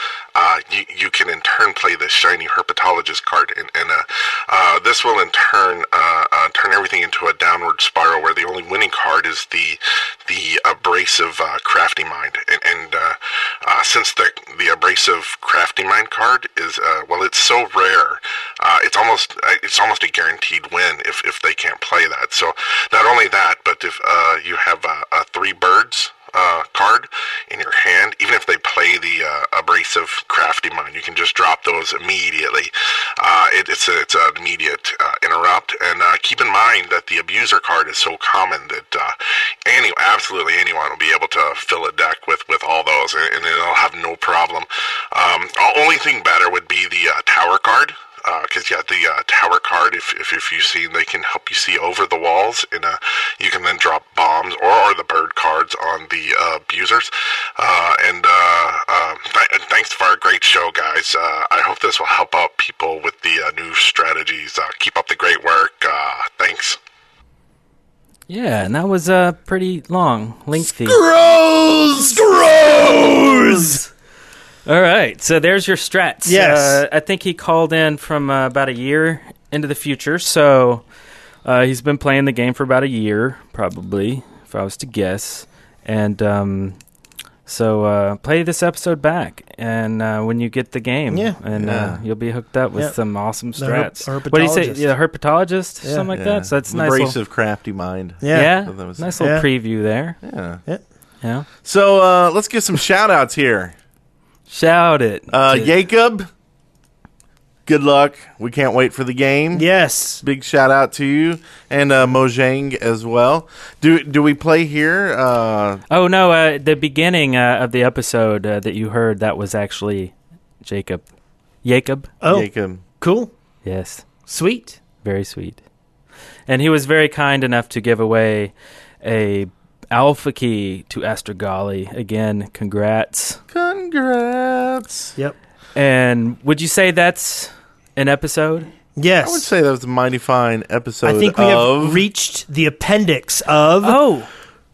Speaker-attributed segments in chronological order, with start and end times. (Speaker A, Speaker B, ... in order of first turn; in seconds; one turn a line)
Speaker A: 0.3-66.8
Speaker B: 68.3-71.0
Speaker C: 70.7-73.9
Speaker B: 74.7-80.8
Speaker C: 76.2-76.8
Speaker B: 81.5-86.8
Speaker B: 87.5-97.2
Speaker C: 91.1-91.4
Speaker D: 91.5-92.0
Speaker C: 93.5-94.9
Speaker D: 96.1-99.2
Speaker C: 98.2-98.6
Speaker B: 98.3-100.2
Speaker C: 99.2-99.5
Speaker D: 100.2-100.6
Speaker D: 101.6-103.8
Speaker B: 104.5-105.8
Speaker D: 105.3-106.3
Speaker D: 107.7-109.7
Speaker C: 109.5-110.2
Speaker D: 110.2-115.8
Speaker B: 115.9-121.1
Speaker B: 121.6-122.1
Speaker C: 122.2-123.3
Speaker D: 122.3-122.8
Speaker B: 123.6-124.0
Speaker C: 124.3-124.8
Speaker B: 125.0-125.6
Speaker B: 126.5-133.4
Speaker D: 133.5-135.1
Speaker B: 135.8-138.7
Speaker C: 139.0-139.5
Speaker D: 139.2-142.1
Speaker C: 141.0-144.0
Speaker B: 143.8-144.3